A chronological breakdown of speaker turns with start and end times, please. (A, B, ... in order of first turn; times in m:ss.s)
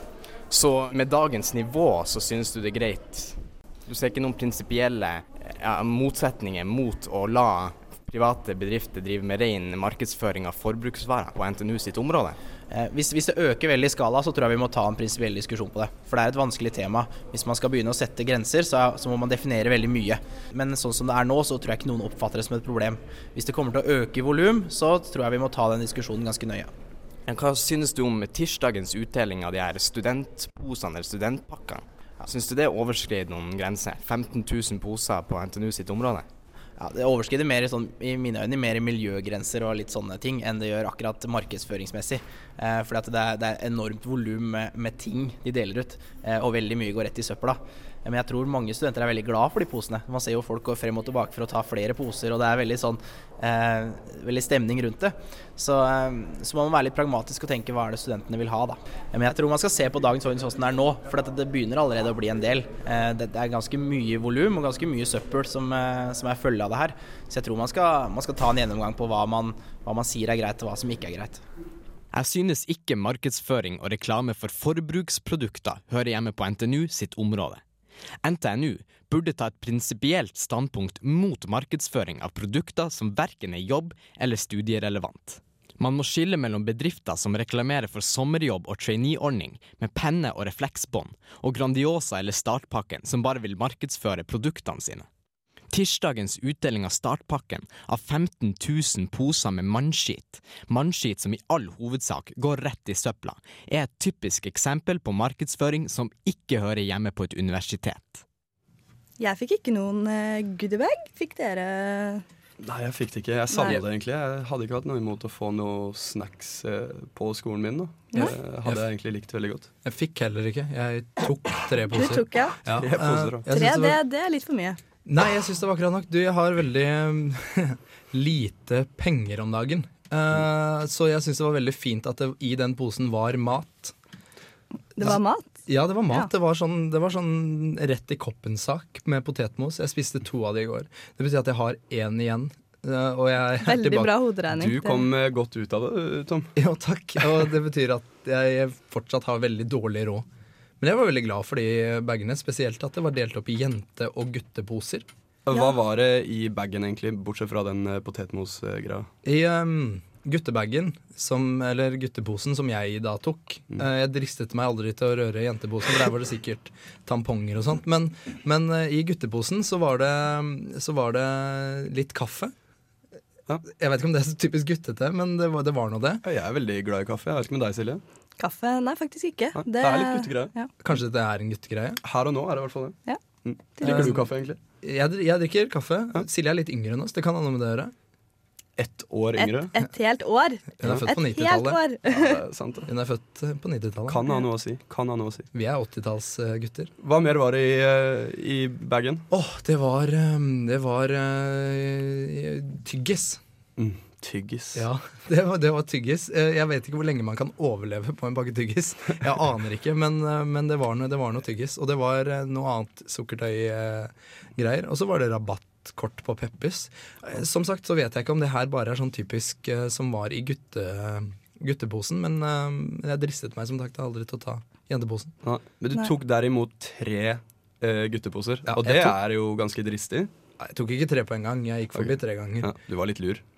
0:00.5-0:12.4 A
0:12.7-0:26.7 B
0:27.3-0:36.3 A
0:36.8-1:11.4 B
1:12.1-1:17.6 A
1:18.2-1:35.1 A
1:35.7-1:48.2 A
1:49.2-1:52.2 C
1:52.6-1:59.7 D
1:53.5-1:53.8 C
1:58.2-1:58.8 E
1:59.8-2:04.0 E
2:01.9-2:02.6 C
2:02.7-2:03.5 D
2:03.5-2:04.8 C
2:05.1-2:13.9 E
2:15.0-2:15.5 C
2:15.0-2:24.2 E
2:23.6-2:25.1 C
2:24.5-2:26.5 D
2:26.6-2:30.3 E
2:30.8-2:35.1 E
2:35.5-2:39.1 D
2:39.2-2:52.5 E
2:53.6-2:56.2 E
2:56.2-2:58.0 D
2:58.4-3:00.7 C
2:59.6-3:00.5 D
3:00.8-3:02.0 E
3:02.0-3:04.6 D
3:03.8-3:04.1 C
3:03.8-3:04.3 E
3:04.8-3:07.9 E
3:08.8-3:09.7 D
3:09.4-3:12.4 C
3:10.8-3:11.8 E
3:12.1-3:12.9 D
3:12.9-3:14.4 E
3:14.1-3:15.5 D
3:15.5-3:16.9 E
3:17.0-3:19.3 D
3:19.3-3:23.4 E
3:23.8-3:24.8 D
3:24.7-3:45.3 E
3:45.4-3:50.3 D
3:48.7-3:49.2 E
3:50.6-3:52.7 E
3:52.0-3:53.4 D